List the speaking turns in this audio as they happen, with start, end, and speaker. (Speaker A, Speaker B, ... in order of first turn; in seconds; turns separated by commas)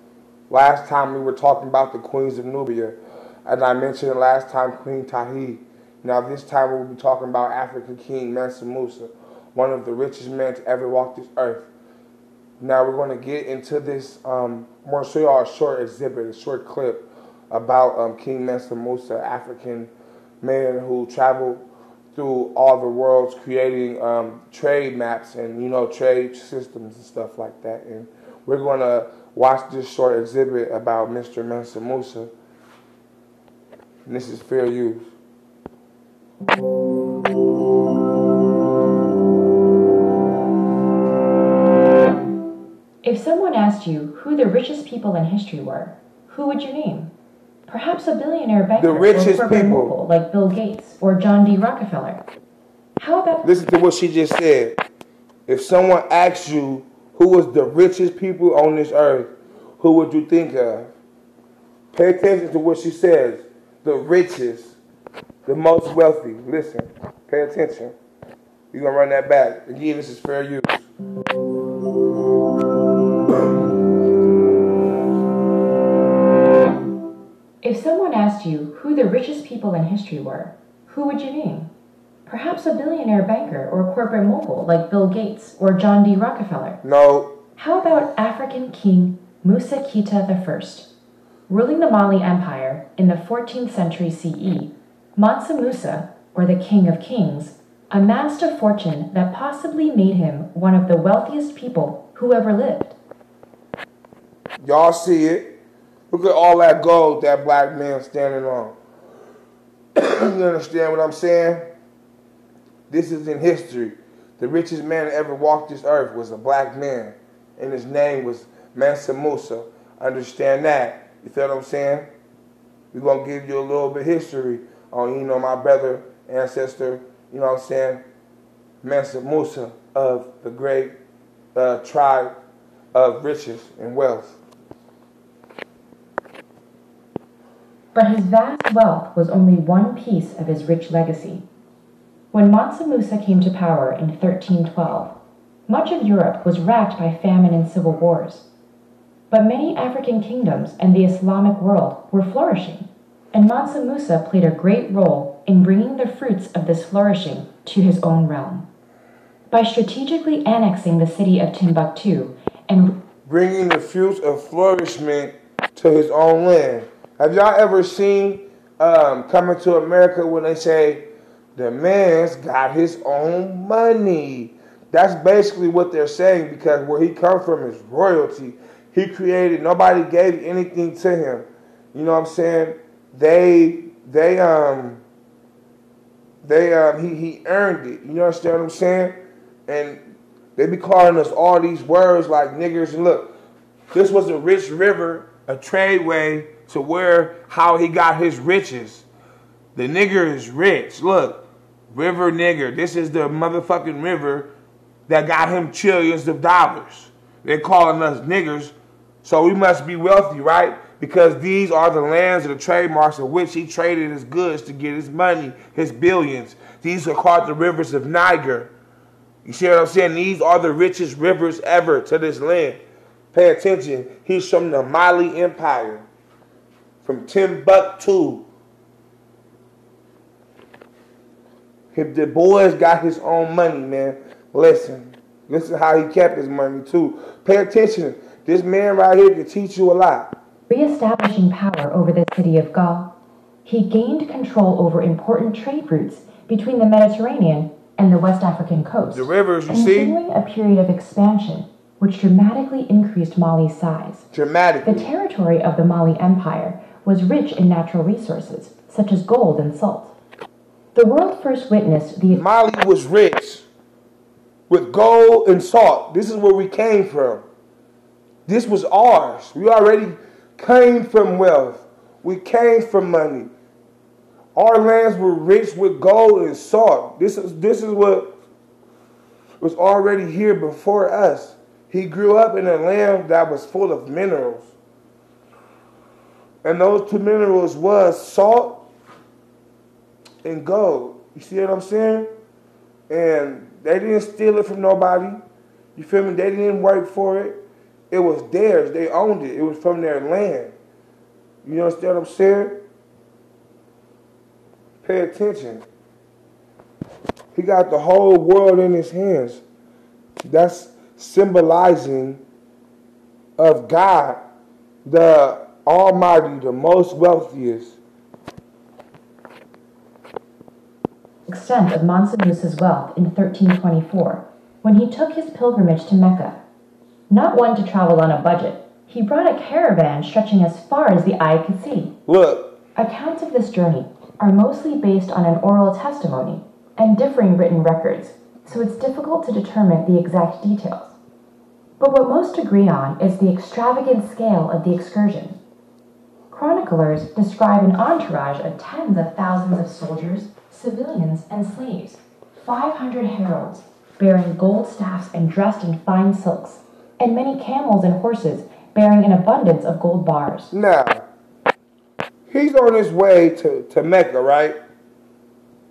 Speaker A: 0.5-11.7, Speaker A: 12.6-19.9, Speaker A: 20.4-32.3, Speaker A: 34.0-35.1, Speaker B: 43.0-47.1, Speaker B: 47.7-52.2, Speaker A: 48.8-49.9, Speaker B: 53.0-53.5, Speaker A: 53.4-54.8, Speaker A: 55.5-60.9, Speaker A: 61.9-64.8, Speaker A: 65.5-67.9, Speaker A: 68.7-70.9, Speaker B: 77.6-81.7, Speaker B: 82.3-86.8, Speaker A: 86.8-87.4, Speaker B: 87.6-90.9, Speaker B: 91.5-103.0, Speaker A: 104.6-105.5, Speaker A: 106.1-108.8, Speaker A: 109.9-111.7, Speaker A: 112.9-122.1, Speaker A: 122.9-128.0, Speaker A: 128.8-131.0, Speaker A: 131.5-132.3, Speaker A: 132.9-134.4, Speaker B: 137.9-141.5, Speaker B: 142.3-148.5, Speaker B: 149.3-158.7, Speaker B: 159.5-163.0, Speaker A: 163.2-185.0, Speaker A: 186.4-189.2, Speaker A: 189.7-190.0, Speaker A: 190.6-193.3, Speaker A: 193.9-199.1, Speaker A: 199.7-204.5, Speaker A: 205.1-218.7, Speaker A: 219.4-222.8, Speaker A: 223.3-226.1, Speaker A: 227.0-228.4, Speaker A: 231.9-240.4, Speaker B: 240.7-243.1, Speaker B: 243.6-254.3, Speaker A: 249.1-250.2, Speaker A: 254.3-255.1, Speaker B: 254.8-260.1, Speaker B: 260.9-262.4, Speaker A: 262.3-263.7, Speaker A: 264.7-267.4, Speaker A: 268.5-273.5, Speaker A: 274.5-278.3, Speaker A: 279.6-284.7, Speaker A: 286.6-288.8, Speaker A: 290.4-292.3, Speaker A: 293.1-295.4, Speaker A: 295.9-297.6, Speaker A: 298.1-300.7, Speaker A: 301.6-302.8, Speaker A: 305.0-305.8, Speaker A: 307.5-309.6, Speaker A: 310.4-312.4, Speaker A: 313.6-314.4, Speaker A: 315.1-318.0, Speaker B: 321.5-326.6, Speaker B: 327.3-332.1, Speaker A: 332.2-332.8, Speaker B: 332.9-341.1, Speaker B: 342.0-345.6, Speaker B: 346.5-360.7, Speaker A: 360.7-361.2, Speaker A: 362.5-364.8